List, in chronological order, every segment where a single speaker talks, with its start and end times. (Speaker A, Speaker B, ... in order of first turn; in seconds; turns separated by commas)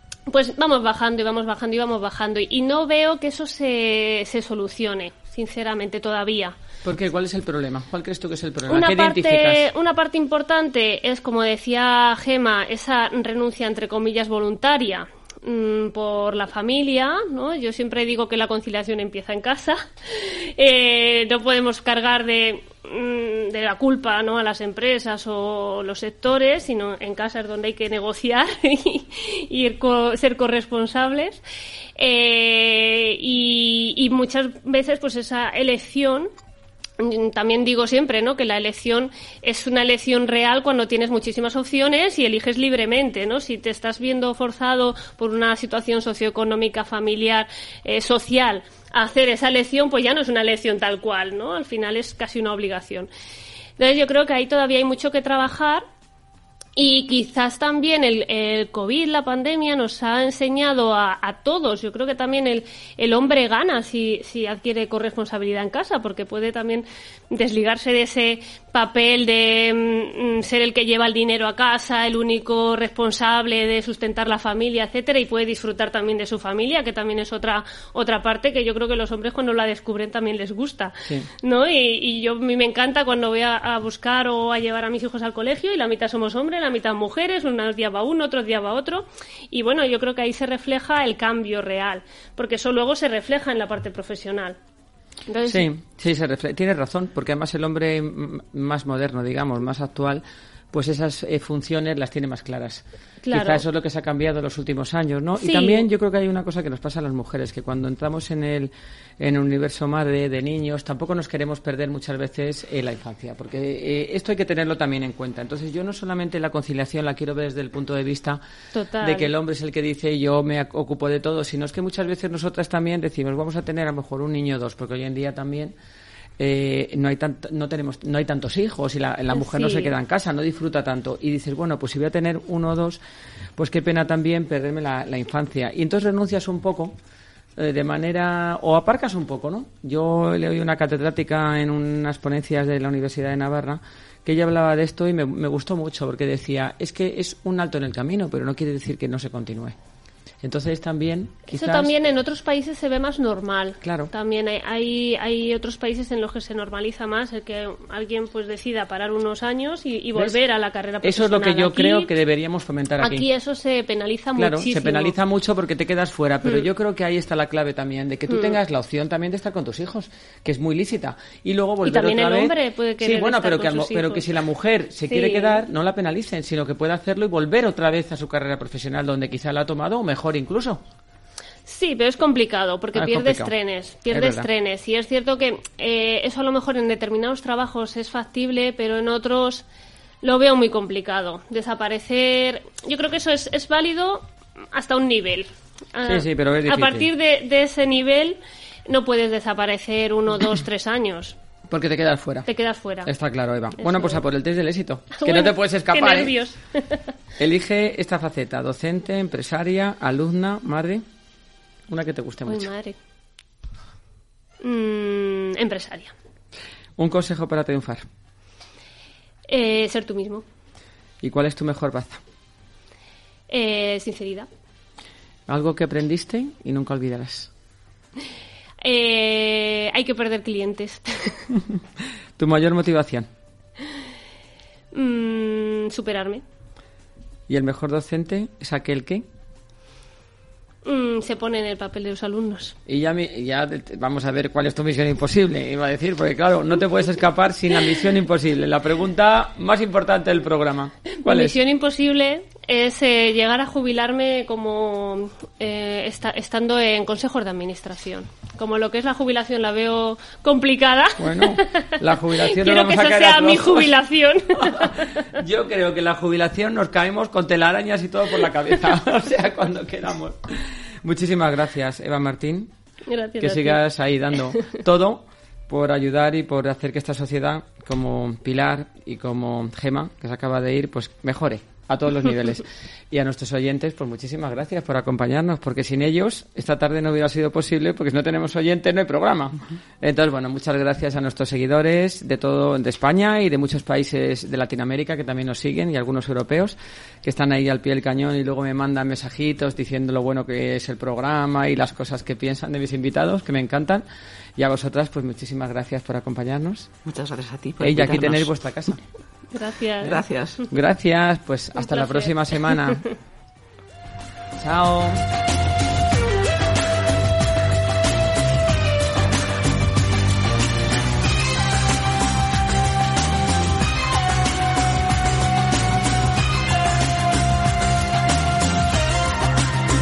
Speaker A: 0.3-6.6, Speaker B: 6.8-9.7, Speaker A: 8.7-31.4, Speaker A: 32.0-36.3, Speaker A: 37.0-53.1, Speaker A: 53.8-55.9, Speaker A: 56.8-94.6, Speaker A: 95.3-95.7, Speaker B: 95.5-118.4, Speaker A: 103.2-103.6, Speaker A: 105.4-105.8, Speaker A: 118.7-119.3, Speaker B: 119.0-125.7, Speaker B: 126.4-133.0, Speaker A: 129.3-129.9, Speaker B: 133.6-136.9, Speaker B: 137.6-149.7, Speaker B: 150.4-151.9, Speaker A: 151.5-162.1, Speaker B: 153.8-154.1, Speaker B: 161.0-163.2, Speaker A: 163.0-165.1, Speaker B: 164.4-180.8, Speaker A: 168.3-168.6, Speaker A: 171.8-174.3, Speaker A: 175.1-175.6, Speaker A: 181.7-189.6, Speaker B: 182.9-183.5, Speaker B: 184.1-184.5, Speaker A: 190.2-201.4, Speaker B: 196.1-197.1, Speaker B: 201.7-202.5, Speaker A: 202.4-203.1, Speaker B: 203.1-206.3, Speaker A: 203.8-204.2, Speaker A: 205.1-207.0, Speaker B: 207.4-211.0, Speaker B: 211.9-212.7, Speaker A: 212.4-213.0, Speaker A: 214.6-216.1, Speaker B: 217.0-218.1, Speaker A: 219.5-220.4, Speaker B: 221.2-222.2, Speaker A: 223.5-224.5, Speaker B: 225.5-227.5, Speaker A: 228.8-231.4, Speaker B: 232.4-233.3, Speaker A: 234.9-236.4, Speaker B: 237.5-239.3, Speaker A: 240.8-242.7, Speaker B: 242.9-251.5, Speaker A: 251.2-265.3, Speaker B: 261.2-263.9, Speaker B: 264.6-272.7, Speaker A: 273.1-273.8, Speaker B: 273.4-304.1, Speaker B: 304.6-306.9, Speaker C: 307.1-308.5, Speaker B: 307.8-309.0, Speaker A: 309.5-310.6, Speaker C: 310.1-310.6, Speaker B: 310.7-313.0, Speaker A: 311.8-313.1, Speaker B: 314.6-315.2